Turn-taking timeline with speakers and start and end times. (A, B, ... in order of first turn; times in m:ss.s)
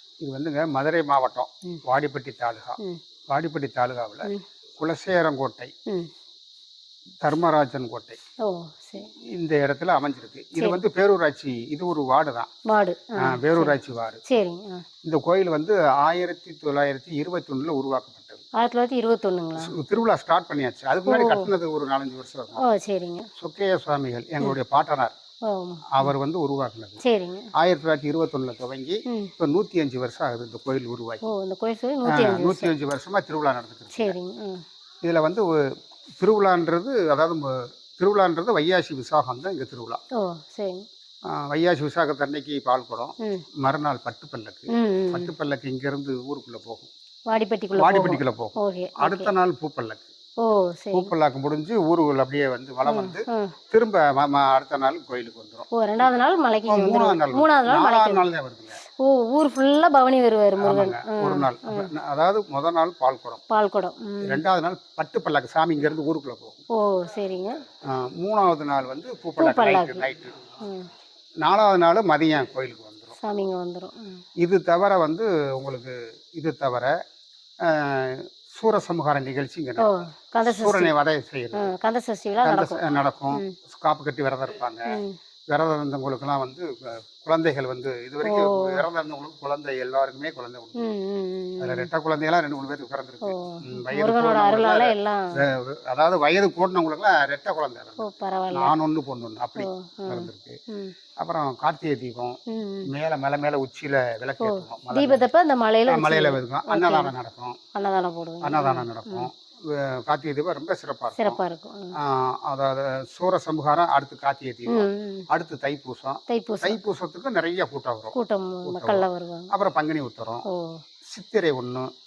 0:00.2-0:02.8 A
0:03.3-0:05.7 A
0:07.2-0:08.2 A
0:08.4-0:09.1 B
0:09.4-0:12.5 A
0:12.7-0:14.8 B
0:13.2-0:14.2 A
0:15.0-0:18.4 A
0:18.6-0:19.7 B
0:19.6-0:22.6 A
0:21.1-0:21.5 B
0:22.6-0:23.3 B
0:23.4-0:25.1 A
0:25.5-0:26.1 B
0:25.9-0:27.0 A
0:27.0-0:27.5 B
0:27.6-0:31.2 A
0:31.2-0:32.7 B
0:32.1-0:34.2 A
0:33.9-0:34.6 B
0:35.0-0:35.6 A
0:36.2-0:40.0 A
0:40.2-0:40.8 B
0:41.3-0:46.9 A
0:44.7-0:45.3 B
0:47.3-0:49.3 B
0:47.8-0:50.1 A
0:50.4-0:51.1 B
0:50.9-0:55.7 A
0:52.9-0:53.6 B
0:55.7-0:58.2 B
0:56.7-0:58.8 A
0:58.9-1:01.9 B
1:00.6-1:03.4 A
1:03.5-1:04.4 B
1:04.2-1:06.6 A
1:06.8-1:07.6 B
1:07.9-1:10.4 A
1:09.4-1:10.1 B
1:10.6-1:10.9 B
1:11.4-1:13.2 A
1:13.2-1:14.2 B
1:14.4-1:16.9 A
1:17.6-1:21.7 A
1:19.8-1:20.9 B
1:21.6-1:22.8 B
1:22.4-1:30.8 A
1:28.2-1:28.8 B
1:30.8-1:31.9 B
1:31.6-1:40.6 A
1:33.2-1:35.4 B
1:38.0-1:38.7 B
1:39.6-1:41.0 B
1:41.2-1:45.3 A
1:42.5-1:42.9 B
1:44.4-1:47.1 B
1:45.9-1:47.6 A
1:47.8-1:49.3 B
1:48.4-1:51.4 A
1:51.2-1:52.0 B
1:52.0-2:00.5 A
1:54.7-1:55.2 B
1:56.3-1:56.8 B
1:58.1-1:59.5 B
2:00.5-2:00.8 B
2:01.1-2:01.9 A